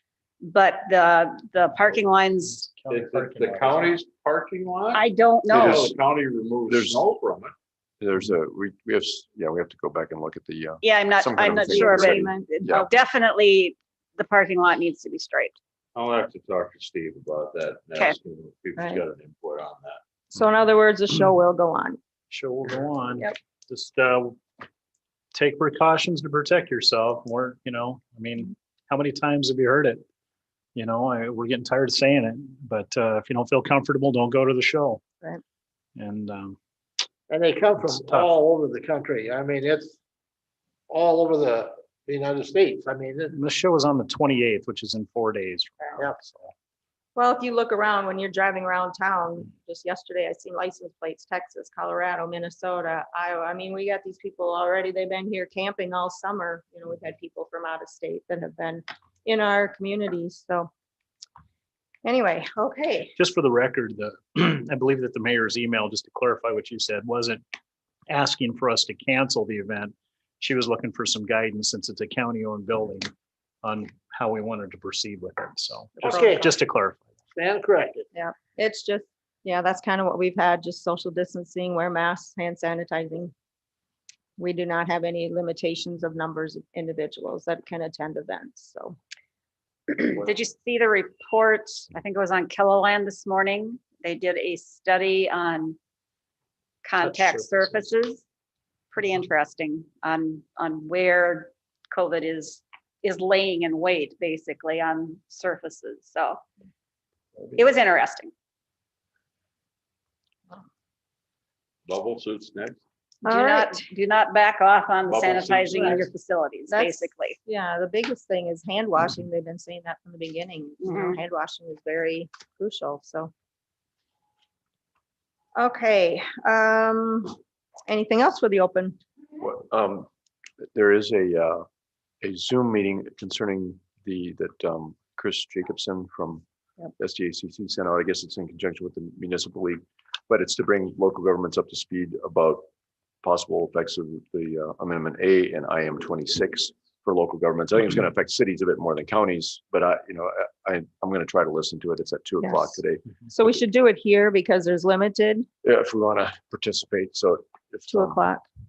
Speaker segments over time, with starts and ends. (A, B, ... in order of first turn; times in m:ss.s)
0:00.4-0:02.7 A
0:02.6-0:04.0 B
0:02.9-0:07.5 C
0:04.9-0:05.9 A
0:05.5-0:06.0 D
0:06.7-0:07.0 D
0:08.0-0:12.9 D
0:10.8-0:15.5 A
0:11.6-0:12.5 E
0:15.9-0:20.0 C
0:18.8-0:19.0 E
0:20.3-0:22.0 E
0:22.3-0:24.4 B
0:25.3-0:30.0 B
0:30.7-0:35.0 B
0:36.0-0:36.6 B
0:37.3-0:40.0 F
0:37.9-0:38.3 B
0:40.9-0:43.4 F
0:43.3-0:46.5 B
0:47.2-1:00.7 E
1:02.0-1:03.1 E
1:03.2-1:07.4 B
1:08.1-1:13.1 B
1:13.6-1:17.0 B
1:16.0-1:16.5 E
1:16.0-1:16.5 F
1:17.3-1:18.0 F
1:18.1-1:23.3 E
1:24.4-1:29.0 E
1:29.9-1:35.8 A
1:36.8-1:38.2 A
1:38.9-1:46.4 A
1:47.6-1:48.3 A
1:51.9-1:52.8 C
1:53.2-1:53.8 E
1:53.2-1:57.4 A
1:55.1-1:56.1 C
1:56.7-2:03.3 E
2:00.8-2:01.2 A
2:05.6-2:09.0 E
2:09.4-2:10.1 D
2:10.6-2:11.7 D
2:12.2-2:16.4 D
2:17.0-2:22.7 D
2:23.2-2:33.1 D
2:32.4-2:35.5 E
2:35.6-2:38.2 D
2:37.9-2:38.4 E